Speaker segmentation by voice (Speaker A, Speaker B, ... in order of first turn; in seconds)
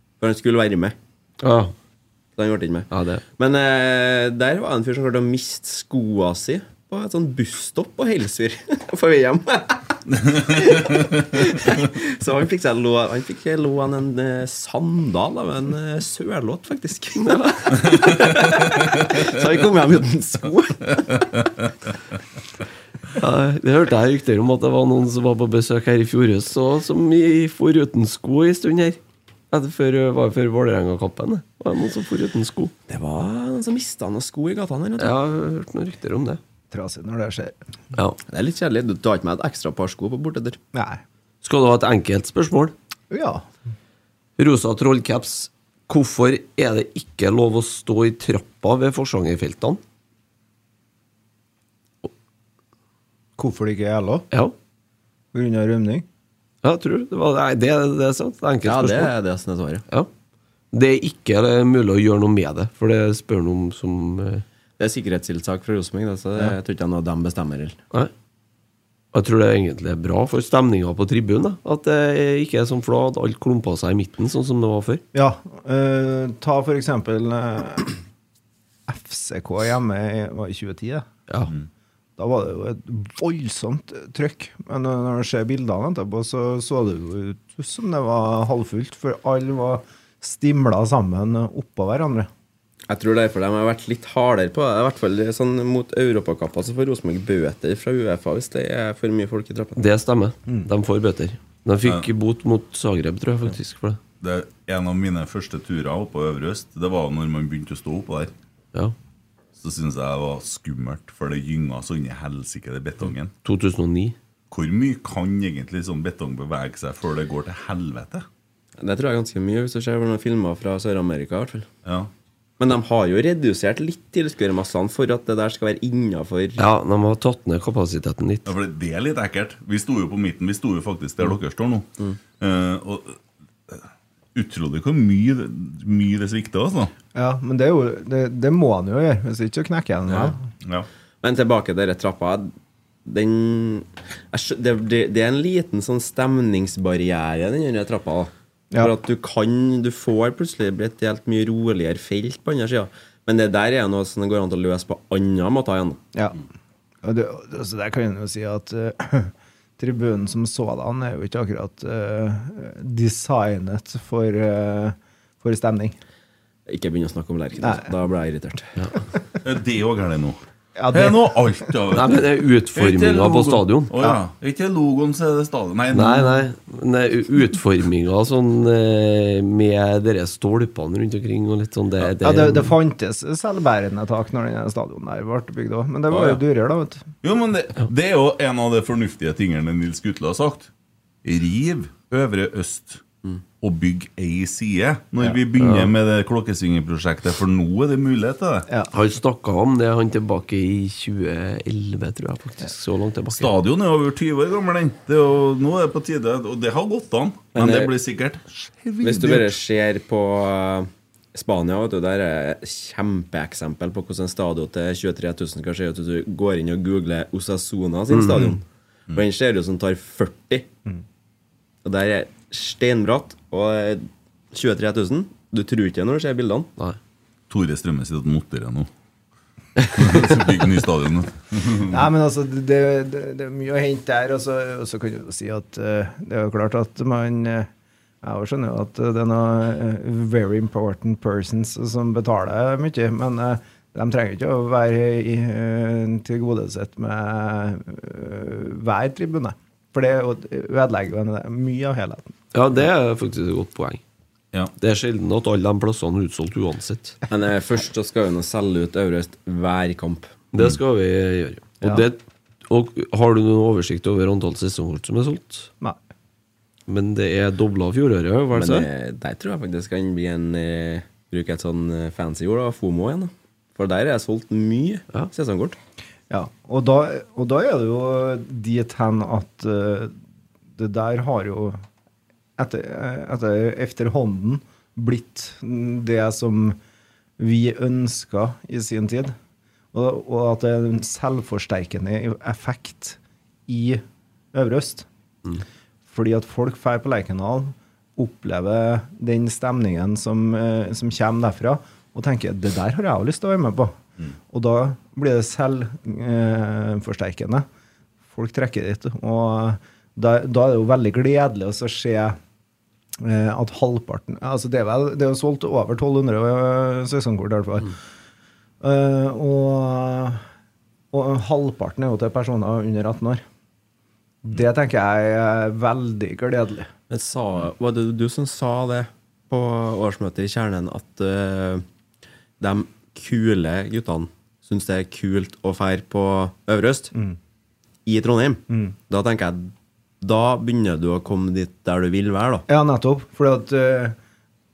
Speaker A: 0.2-0.9, 2.4-9.8, 10.4-21.3, 32.9-35.1, 38.3-40.6, 58.6-59.8, 64.8-67.8, 92.9-99.8, 118.8-121.7, 122.6-126.6, 140.1-140.3, 141.2-142.5, 143.1-156.0, 166.7-168.7, 207.5-207.9, 209.0-220.7, 221.8-226.7, 257.3-260.3, 268.5-275.8, 327.1-331.8, 332.6-337.1, 338.1-342.6
Speaker B: 1.4-1.7, 2.9-3.2, 23.2-29.0, 29.5-32.7, 35.0-36.4, 41.4-42.7, 44.4-49.8, 56.6-59.1, 60.7-64.4, 69.1-75.0, 99.8-104.0, 113.4-114.2, 126.6-128.5, 171.9-173.9, 175.9-182.7, 195.6-195.9, 198.9-203.5, 218.1-218.6, 252.5-254.0, 254.8-257.2, 260.5-265.7, 266.9-268.9
Speaker C: 10.2-11.1, 104.2-108.3, 109.6-113.3, 114.5-118.3, 121.8-122.1, 128.4-131.9, 132.4-136.9, 169.4-170.4, 170.9-176.5, 187.2-190.7, 191.2-193.0, 193.6-198.7, 203.3-209.6, 227.5-228.9, 229.9-232.1
Speaker D: 36.7-37.6, 40.7-41.0, 43.1-43.5, 53.4-54.2, 55.3-56.0, 75.1-78.0, 78.9-81.1, 82.2-92.3, 137.2-140.4, 156.2-156.4, 157.0-166.0, 167.6-167.9, 170.8-171.4, 182.2-187.0, 231.9-237.7, 238.2-252.3, 276.3-280.1, 280.8-281.8, 282.6-286.8, 287.4-289.4, 289.9-294.0, 294.5-295.1, 296.1-304.0, 304.5-307.7, 308.3-312.4, 313.2-318.0, 318.8-320.4, 321.1-323.4, 324.4-326.9, 342.7-344.1